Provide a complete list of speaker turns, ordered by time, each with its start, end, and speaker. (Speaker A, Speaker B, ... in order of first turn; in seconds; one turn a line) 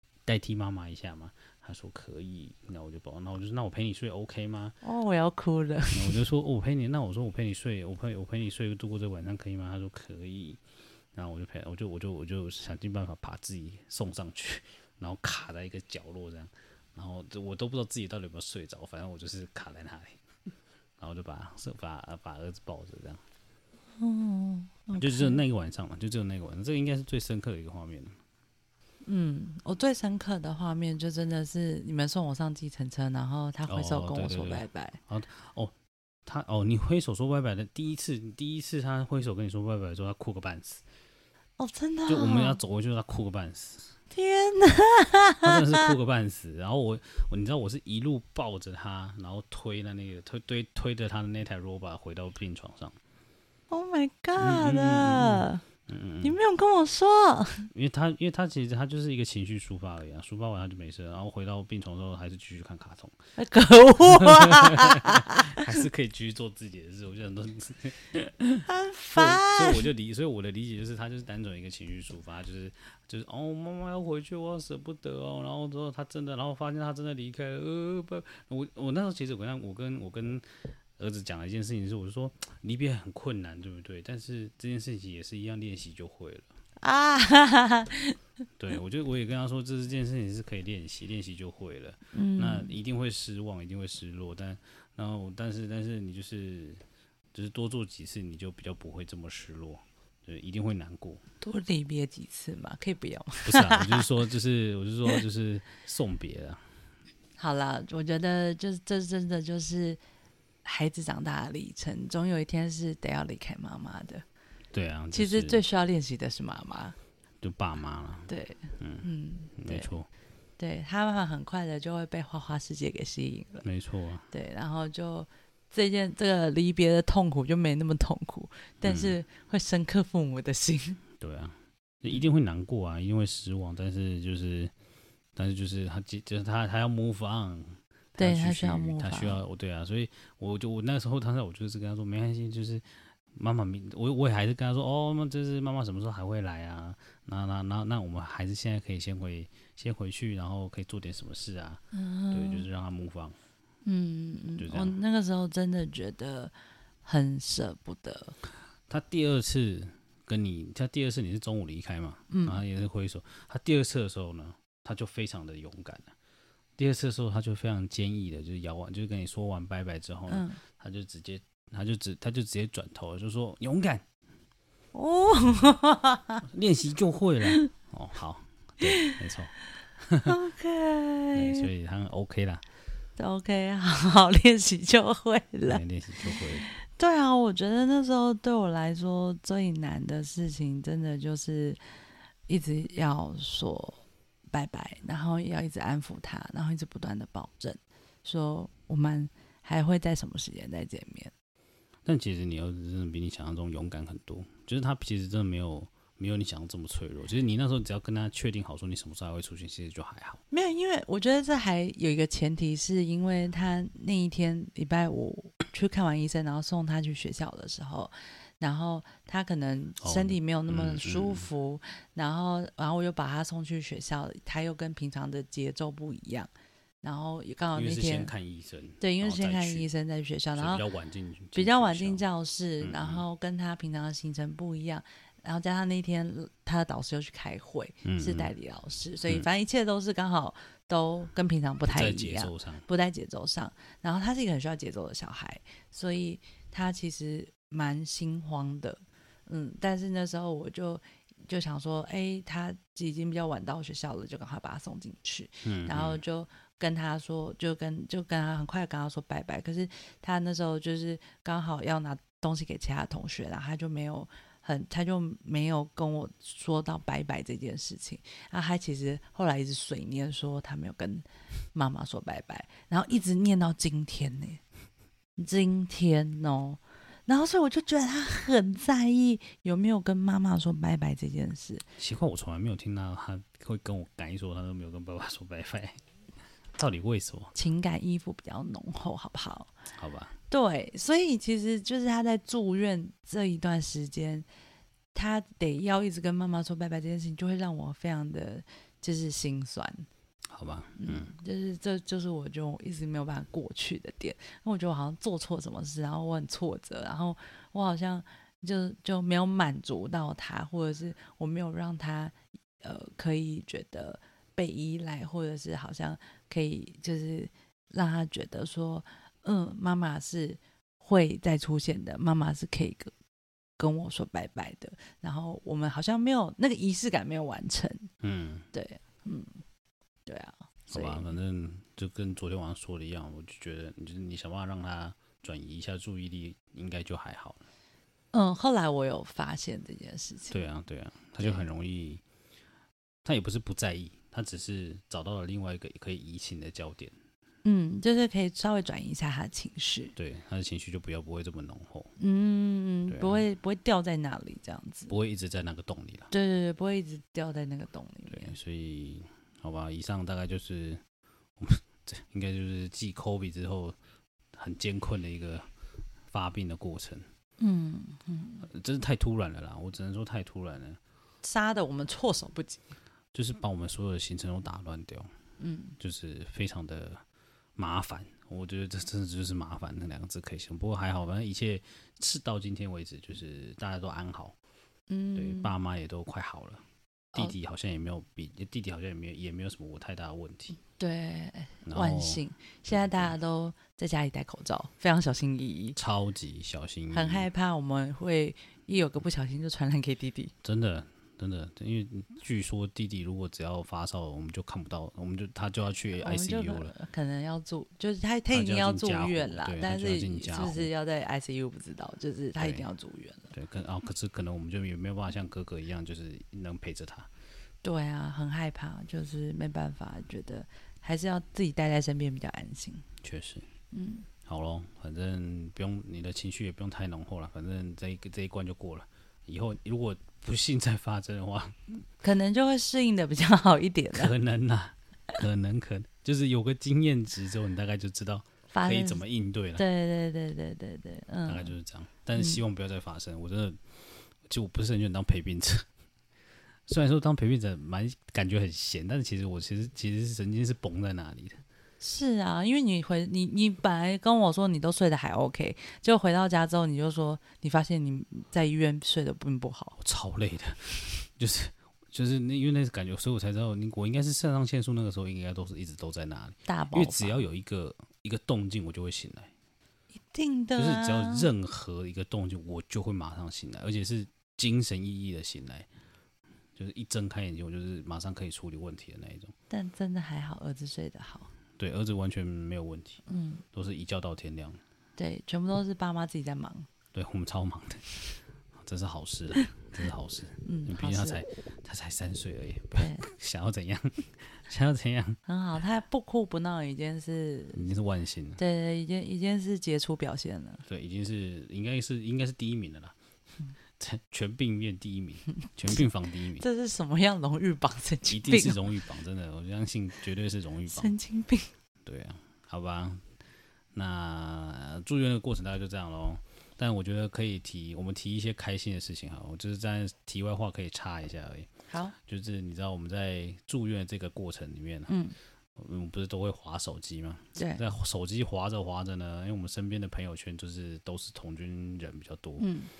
Speaker A: 0.2-4.8
Speaker B: 4.8-6.2
Speaker A: 5.9-10.6
Speaker A: 11.1-20.2
Speaker A: 21.0-23.2
Speaker B: 24.0-25.4
Speaker A: 25.0-28.1
Speaker B: 29.0-35.0
Speaker A: 33.7-35.7
Speaker A: 36.2-40.8
Speaker B: 41.6-42.6
Speaker A: 42.1-43.9
Speaker B: 44.1-45.9
Speaker A: 45.4-53.0
Speaker B: 53.7-55.6
Speaker A: 54.4-56.4
Speaker B: 56.2-57.7
Speaker A: 57.7-63.2
Speaker B: 63.4-65.8
Speaker A: 64.1-80.4
Speaker B: 68.7-69.9
Speaker A: 81.0-86.5
Speaker B: 86.8-88.2
Speaker A: 88.6-96.8
Speaker B: 92.1-92.7
Speaker A: 97.3-101.2
Speaker B: 101.4-104.1
Speaker A: 103.4-106.6
Speaker B: 107.4-110.0
Speaker B: 110.6-114.2
Speaker A: 114.7-115.6
Speaker B: 115.1-117.0
Speaker A: 117.4-119.0
Speaker B: 118.3-119.9
Speaker A: 119.6-120.1
Speaker B: 120.6-123.6
Speaker A: 123.6-124.3
Speaker B: 124.3-131.0
Speaker A: 128.8-129.2
Speaker A: 131.2-134.7
Speaker A: 135.3-153.3
Speaker B: 138.2-139.4
Speaker B: 151.9-152.7
Speaker B: 153.8-156.5
Speaker A: 154.6-154.9
Speaker B: 157.0-158.4
Speaker A: 158.9-166.1
Speaker B: 162.3-162.6
Speaker A: 166.8-174.0
Speaker B: 170.3-170.6
Speaker B: 174.9-176.4
Speaker A: 176.4-180.3
Speaker B: 178.8-179.2
Speaker B: 180.2-181.7
Speaker A: 181.3-182.6
Speaker B: 183.2-191.8
Speaker A: 185.6-186.6
Speaker B: 192.5-201.3
Speaker A: 202.0-210.4
Speaker B: 210.5-226.5
Speaker A: 220.0-221.4
Speaker B: 227.0-228.3
Speaker A: 227.7-229.9
Speaker B: 229.0-230.8
Speaker A: 230.5-232.2
Speaker B: 231.5-274.6
Speaker A: 232.8-233.2
Speaker A: 238.0-238.5
Speaker A: 241.8-242.8
Speaker A: 255.6-256.2
Speaker B: 275.4-281.8
Speaker A: 282.0-286.0
Speaker A: 286.7-287.5
Speaker B: 287.5-289.7
Speaker A: 289.9-290.3
Speaker B: 290.5-294.4
Speaker B: 295.1-300.1
Speaker A: 300.5-301.3
Speaker B: 301.0-323.1
Speaker B: 323.8-328.1
Speaker A: 328.2-328.7
Speaker B: 328.7-329.6
Speaker B: 330.2-331.3
Speaker A: 330.9-337.6
Speaker B: 338.3-340.6
Speaker A: 340.5-342.2
Speaker A: 343.2-347.1
Speaker B: 347.6-350.1
Speaker A: 350.1-352.1
Speaker B: 352.2-355.1
Speaker A: 353.1-353.4
Speaker A: 355.1-356.3
Speaker B: 356.3-358.5
Speaker A: 358.3-361.0
Speaker A: 361.6-363.9
Speaker A: 364.5-365.7
Speaker A: 366.3-367.2
Speaker B: 367.6-368.7
Speaker A: 368.6-371.0
Speaker B: 371.4-372.9
Speaker A: 373.3-375.3
Speaker B: 375.6-375.9
Speaker A: 376.0-377.2
Speaker A: 377.8-384.5
Speaker B: 385.1-385.7
Speaker A: 385.4-386.8
Speaker A: 387.3-390.8
Speaker B: 390.8-396.0
Speaker A: 391.8-393.3
Speaker A: 395.9-397.5
Speaker B: 397.1-400.5
Speaker A: 400.6-406.9
Speaker B: 406.1-413.5
Speaker A: 408.5-410.9
Speaker A: 412.6-412.9
Speaker A: 413.5-417.3
Speaker B: 417.8-423.1
Speaker A: 423.2-423.6
Speaker B: 423.9-424.3
Speaker A: 424.4-432.0
Speaker B: 432.2-434.3
Speaker A: 434.1-439.8
Speaker B: 438.7-439.2
Speaker B: 439.8-441.7
Speaker A: 441.4-443.8
Speaker B: 442.4-442.6
Speaker A: 444.4-445.9
Speaker A: 446.9-451.6
Speaker B: 452.0-460.0
Speaker A: 460.0-469.5
Speaker B: 466.7-467.3
Speaker B: 470.3-471.5
Speaker A: 470.8-475.9
Speaker A: 476.8-479.5
Speaker B: 479.7-481.5
Speaker A: 481.8-484.8
Speaker B: 483.3-483.6
Speaker B: 485.2-486.9
Speaker A: 487.1-495.4
Speaker B: 490.6-491.4
Speaker B: 493.0-493.2
Speaker B: 495.4-497.8
Speaker A: 497.7-498.6
Speaker B: 498.6-500.8
Speaker A: 500.9-503.1
Speaker A: 504.0-506.6
Speaker B: 506.6-508.9
Speaker A: 508.2-511.1
Speaker B: 510.9-511.7
Speaker A: 512.0-513.2
Speaker A: 513.9-521.7
Speaker B: 521.9-522.1
Speaker A: 522.2-525.1
Speaker B: 525.1-525.3
Speaker A: 525.8-532.7
Speaker B: 527.5-527.8
Speaker B: 532.6-532.9